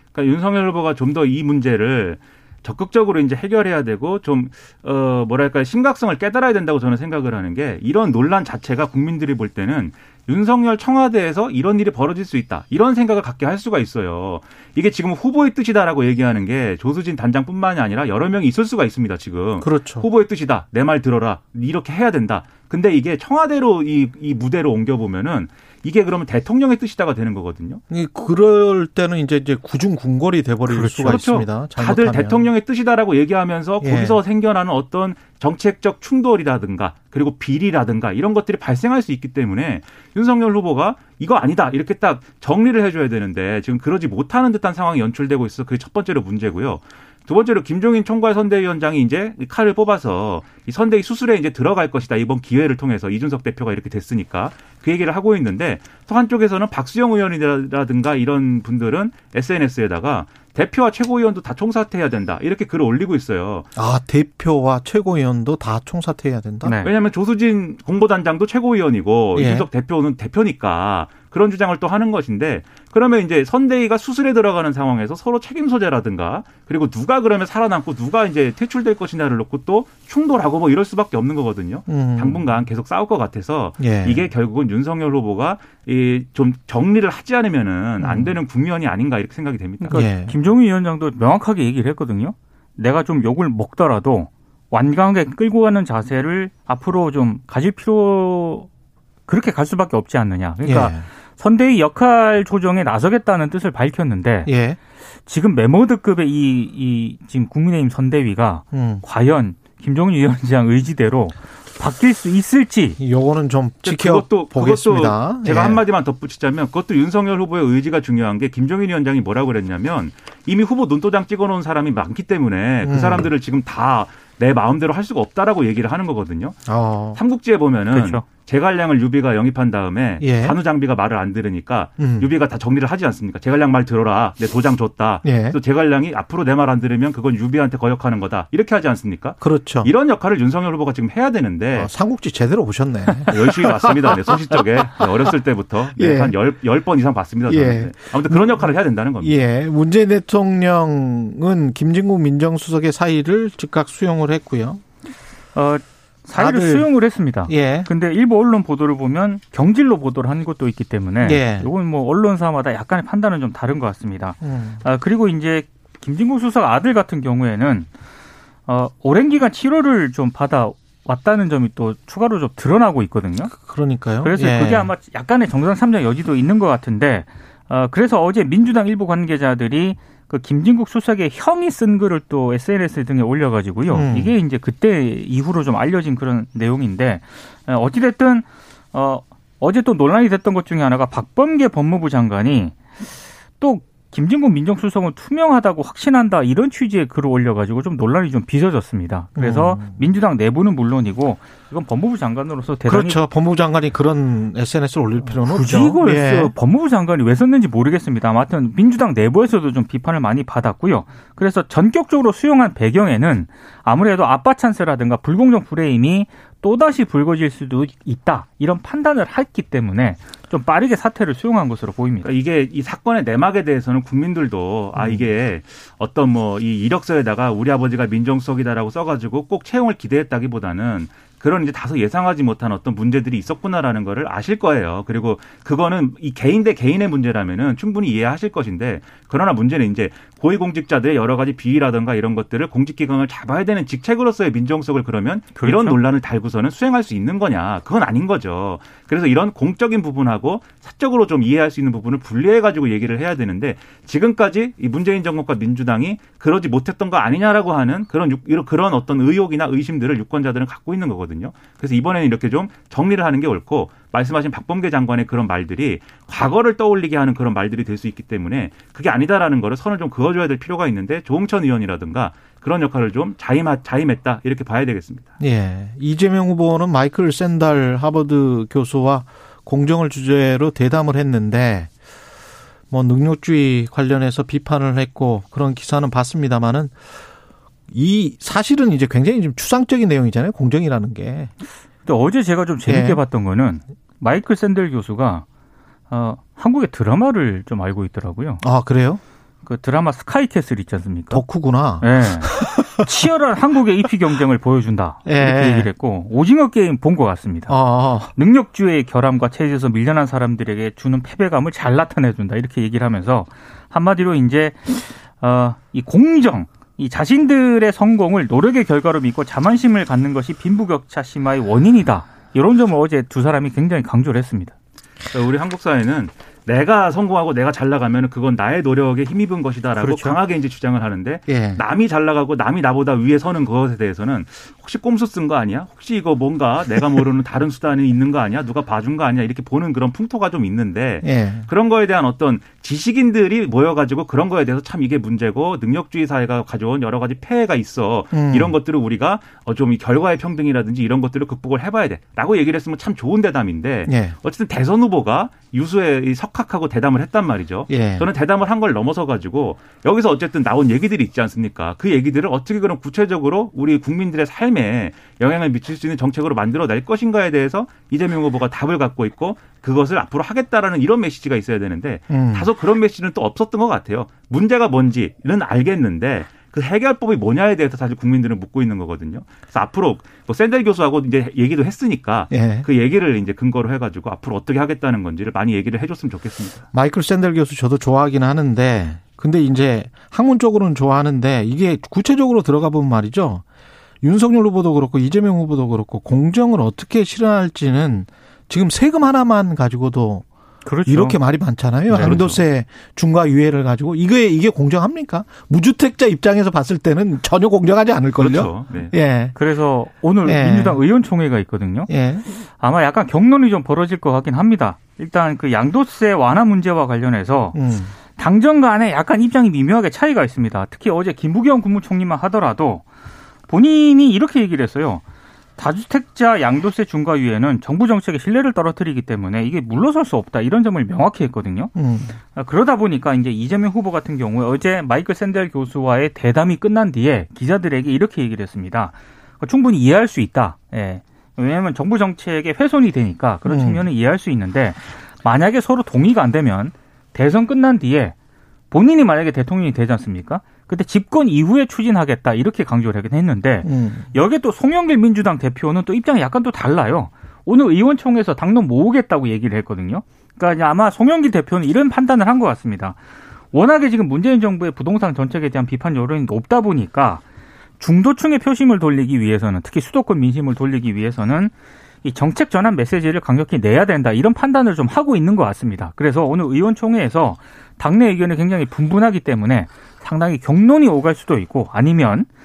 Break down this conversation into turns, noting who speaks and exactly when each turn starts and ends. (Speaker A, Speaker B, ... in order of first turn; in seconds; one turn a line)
Speaker A: 0.1-27.8
Speaker B: 19.6-20.1
Speaker B: 27.9-32.5
Speaker C: 30.7-31.1
Speaker A: 30.9-63.7
Speaker B: 33.8-34.2
Speaker B: 63.8-66.8
Speaker C: 66.6-66.9
Speaker A: 66.8-90.0
Speaker B: 69.3-69.7
Speaker B: 81.9-82.4
Speaker B: 83.8-84.2
Speaker B: 88.0-88.4
Speaker C: 89.8-98.7
Speaker B: 89.9-90.4
Speaker C: 99.3-104.5
Speaker B: 100.6-101.1
Speaker B: 104.5-104.8
Speaker C: 105.2-113.0
Speaker B: 108.7-109.0
Speaker B: 113.0-115.8
Speaker A: 113.8-141.9
Speaker B: 122.8-123.3
Speaker B: 126.7-127.2
Speaker C: 127.9-128.2
Speaker B: 130.2-130.6
Speaker B: 132.0-132.3
Speaker B: 135.2-135.6
Speaker B: 139.4-139.9
Speaker B: 141.7-144.6
Speaker A: 143.3-149.4
Speaker B: 145.9-146.3
Speaker B: 147.5-154.8
Speaker C: 155.5-167.9
Speaker B: 156.3-156.9
Speaker B: 157.4-157.9
Speaker B: 161.2-161.7
Speaker B: 164.4-164.8
Speaker C: 168.7-173.5
Speaker B: 173.5-174.9
Speaker C: 174.2-192.8
Speaker B: 183.9-184.3
Speaker C: 193.6-203.2
Speaker B: 199.4-200.0
Speaker B: 202.8-206.5
Speaker C: 205.3-222.3
Speaker A: 222.2-275.3
Speaker B: 224.9-225.2
Speaker C: 245.6-246.0
Speaker B: 275.4-281.9
Speaker B: 282.9-286.9
Speaker B: 287.9-291.5
Speaker C: 292.0-295.4
Speaker B: 292.9-293.2
Speaker C: 296.1-298.6
Speaker B: 298.6-299.2
Speaker C: 299.6-301.4
Speaker B: 301.3-303.1
Speaker C: 302.0-324.7
Speaker B: 305.2-305.9
Speaker B: 307.7-308.3
Speaker A: 325.3-386.9
Speaker C: 330.0-330.4
Speaker B: 331.5-331.8
Speaker B: 341.2-341.7
Speaker B: 348.3-348.8
Speaker B: 354.1-354.4
Speaker B: 357.9-358.3
Speaker B: 372.3-372.7
Speaker B: 382.5-382.9
Speaker B: 386.9-393.6
Speaker B: 394.2-400.4
Speaker C: 400.8-401.4
Speaker B: 401.1-409.6
Speaker A: 402.1-402.6
Speaker A: 408.4-409.1
Speaker C: 409.5-417.8
Speaker B: 410.4-411.0
Speaker B: 412.1-412.5
Speaker B: 417.7-418.1
Speaker C: 418.3-423.0
Speaker C: 423.7-425.2
Speaker C: 425.8-431.9
Speaker B: 431.9-432.4
Speaker C: 432.5-448.3
Speaker B: 443.6-444.1
Speaker C: 448.9-463.2
Speaker B: 453.8-454.3
Speaker C: 463.7-467.4
Speaker C: 468.0-471.7
Speaker C: 472.2-482.5